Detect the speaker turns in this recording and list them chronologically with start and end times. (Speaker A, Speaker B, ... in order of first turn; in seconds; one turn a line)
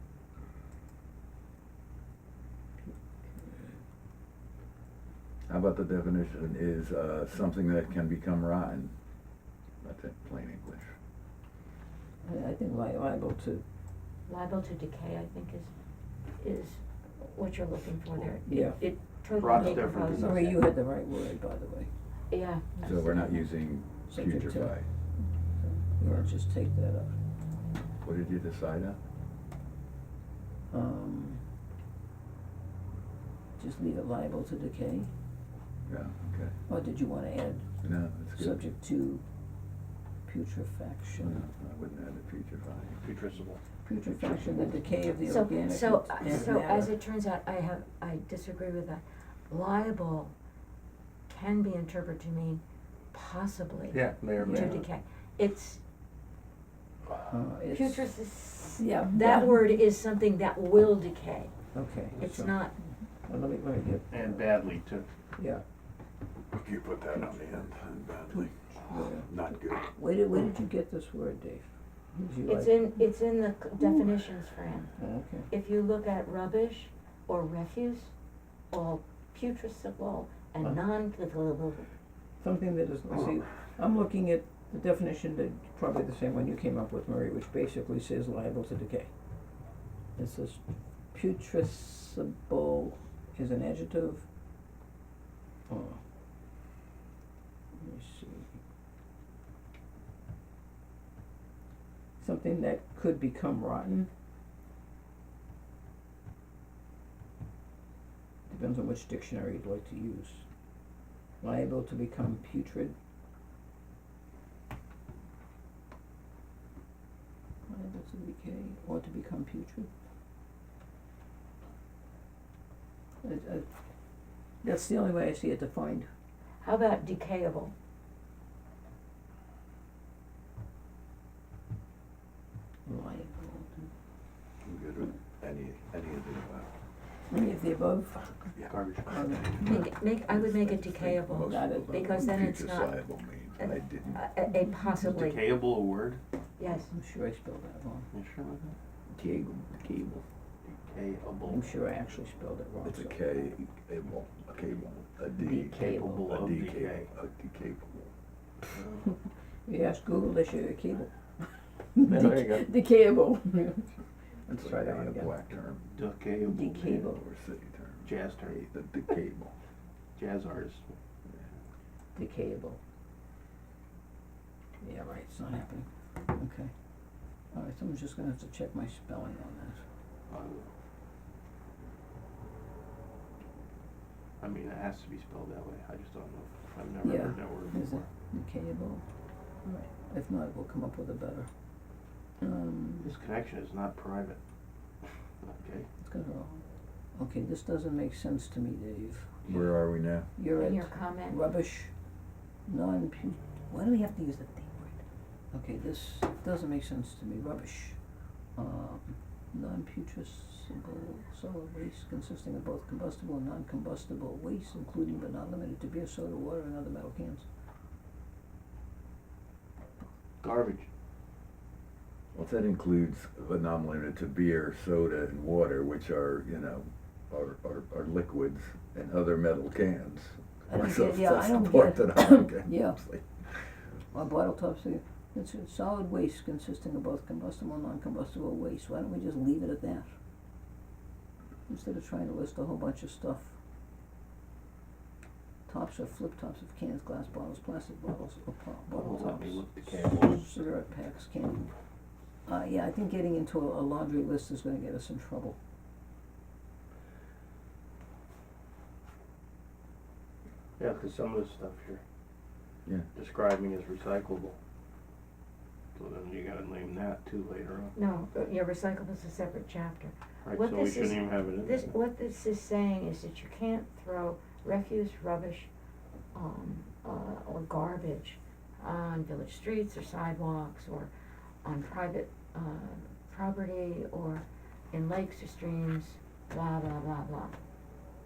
Speaker A: 3.4-3.7
Speaker B: 5.5-8.9
Speaker B: 9.8-10.9
Speaker A: 12.2-13.6
Speaker C: 14.3-15.7
Speaker C: 16.4-20.5
Speaker A: 18.5-18.8
Speaker D: 19.3-20.7
Speaker A: 19.5-21.9
Speaker C: 22.3-23.4
Speaker B: 22.8-24.9
Speaker A: 24.1-24.8
Speaker A: 25.6-27.1
Speaker B: 28.0-29.0
Speaker A: 30.7-31.4
Speaker A: 33.6-35.1
Speaker B: 35.9-36.5
Speaker A: 36.7-37.7
Speaker B: 37.8-38.6
Speaker A: 38.3-39.2
Speaker A: 40.2-41.4
Speaker B: 41.2-43.0
Speaker D: 43.0-43.6
Speaker A: 43.8-46.9
Speaker C: 45.2-50.4
Speaker C: 51.3-55.8
Speaker D: 53.9-54.9
Speaker A: 54.4-54.8
Speaker A: 57.2-58.1
Speaker C: 57.7-61.5
Speaker A: 58.8-59.6
Speaker A: 61.7-62.6
Speaker C: 62.1-62.8
Speaker A: 63.3-64.5
Speaker D: 64.1-65.1
Speaker A: 65.4-65.6
Speaker B: 66.5-68.5
Speaker A: 68.3-72.9
Speaker B: 69.3-69.9
Speaker C: 72.5-74.9
Speaker A: 75.0-75.5
Speaker C: 75.5-78.1
Speaker C: 78.7-81.9
Speaker A: 82.4-89.1
Speaker A: 90.2-90.6
Speaker A: 91.1-94.2
Speaker A: 95.7-96.0
Speaker A: 97.8-98.5
Speaker A: 102.2-104.1
Speaker A: 108.5-110.5
Speaker A: 111.4-113.0
Speaker A: 117.7-119.9
Speaker A: 123.2-123.7
Speaker A: 124.6-126.1
Speaker C: 126.6-127.7
Speaker A: 132.9-133.9
Speaker B: 134.6-136.7
Speaker A: 137.3-139.9
Speaker B: 138.6-144.2
Speaker D: 138.7-139.3
Speaker C: 139.6-142.9
Speaker A: 141.4-142.1
Speaker C: 143.6-145.5
Speaker D: 145.0-146.2
Speaker C: 146.6-146.9
Speaker A: 146.9-148.1
Speaker D: 148.1-148.7
Speaker B: 149.1-150.2
Speaker D: 150.7-151.7
Speaker A: 151.5-153.2
Speaker B: 152.8-158.1
Speaker A: 155.4-156.2
Speaker D: 155.6-157.1
Speaker D: 158.7-159.1
Speaker A: 159.7-161.1
Speaker A: 161.9-163.9
Speaker D: 162.0-162.7
Speaker A: 164.5-165.3
Speaker B: 164.5-165.9
Speaker D: 165.9-167.1
Speaker A: 166.4-167.2
Speaker B: 167.1-169.6
Speaker D: 168.0-168.7
Speaker D: 170.2-170.9
Speaker A: 172.2-172.8
Speaker A: 174.8-176.7
Speaker A: 177.5-179.8
Speaker D: 180.3-180.7
Speaker D: 184.4-188.1
Speaker A: 187.0-189.0
Speaker A: 189.6-191.5
Speaker A: 192.4-193.1
Speaker D: 193.0-194.4
Speaker D: 195.4-195.9
Speaker A: 196.0-196.6
Speaker A: 197.2-199.4
Speaker B: 199.5-200.3
Speaker A: 200.4-201.9
Speaker C: 200.6-201.4
Speaker A: 202.7-205.0
Speaker A: 205.5-208.0
Speaker A: 208.6-217.5
Speaker D: 220.4-220.9
Speaker B: 222.3-233.3
Speaker A: 230.7-233.0
Speaker A: 234.1-240.1
Speaker A: 241.7-243.5
Speaker A: 245.7-251.7
Speaker D: 248.9-250.5
Speaker A: 252.5-255.6
Speaker D: 260.8-262.0
Speaker D: 263.1-264.6
Speaker D: 265.9-267.9
Speaker C: 267.9-275.7
Speaker D: 270.4-271.9
Speaker C: 276.3-281.1
Speaker C: 281.6-287.6